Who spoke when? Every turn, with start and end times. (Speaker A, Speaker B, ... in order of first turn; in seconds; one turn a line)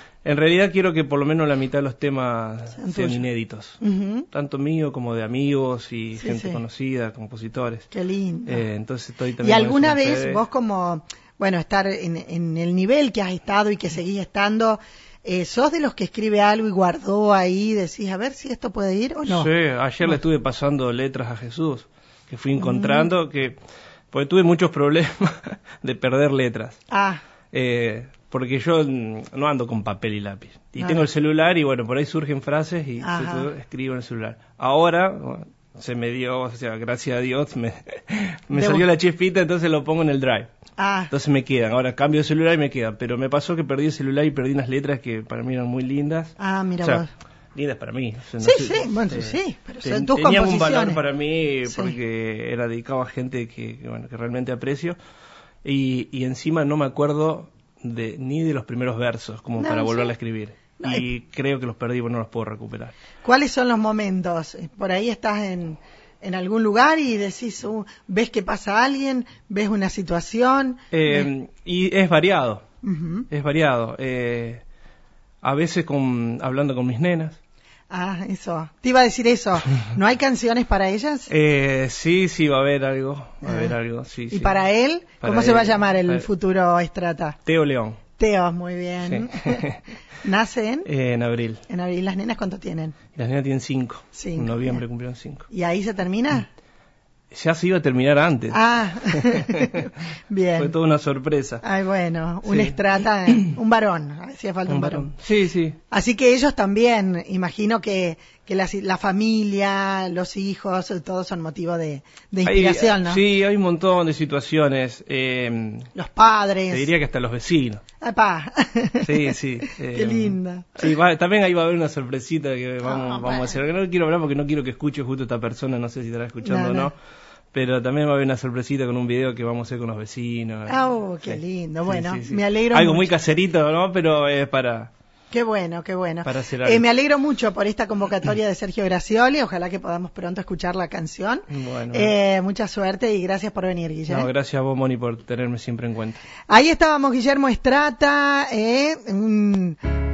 Speaker A: 0.2-3.8
Speaker B: 2.8-3.2
Speaker B: 3.8-4.3
Speaker A: 4.3-7.9
Speaker B: 6.2-6.6
Speaker B: 7.9-8.6
Speaker A: 8.5-10.4
Speaker B: 9.4-19.5
Speaker A: 19.3-23.6
Speaker B: 22.6-23.1
Speaker A: 24.1-26.8
Speaker B: 26.9-27.2
Speaker A: 27.5-40.5
Speaker B: 30.8-31.1
Speaker B: 33.0-33.5
Speaker B: 38.5-38.9
Speaker B: 40.8-41.1
Speaker A: 41.1-47.0
Speaker B: 46.4-47.1
Speaker A: 47.5-55.0
Speaker B: 48.4-51.0
Speaker B: 51.7-52.0
Speaker A: 55.6-62.9
Speaker B: 59.6-60.1
Speaker B: 60.8-61.0
Speaker B: 63.2-71.3
Speaker A: 70.9-72.6
Speaker B: 72.8-73.3
Speaker A: 73.3-74.6
Speaker A: 75.4-77.4
Speaker B: 77.9-81.3
Speaker A: 81.3-84.6
Speaker B: 83.4-83.7
Speaker B: 84.3-87.4
Speaker A: 85.2-86.3
Speaker A: 87.5-88.0
Speaker B: 88.2-89.7
Speaker A: 89.0-89.8
Speaker B: 90.2-90.9
Speaker A: 90.9-91.6
Speaker B: 91.7-93.0
Speaker A: 93.2-95.5
Speaker B: 94.1-94.8
Speaker B: 95.5-96.5
Speaker A: 97.3-99.9
Speaker B: 98.5-100.7
Speaker A: 100.6-101.6
Speaker B: 101.6-105.1
Speaker A: 102.5-103.5
Speaker A: 104.7-105.8
Speaker B: 105.9-113.2
Speaker A: 112.5-115.9
Speaker B: 116.0-116.9
Speaker A: 116.7-117.8
Speaker B: 118.0-120.9
Speaker A: 119.0-127.0
Speaker B: 122.8-123.6
Speaker B: 126.4-126.9
Speaker A: 127.5-134.9
Speaker B: 130.7-133.1
Speaker B: 135.3-144.3
Speaker A: 136.2-136.9
Speaker A: 141.5-142.1
Speaker A: 144.1-146.2
Speaker B: 146.5-149.8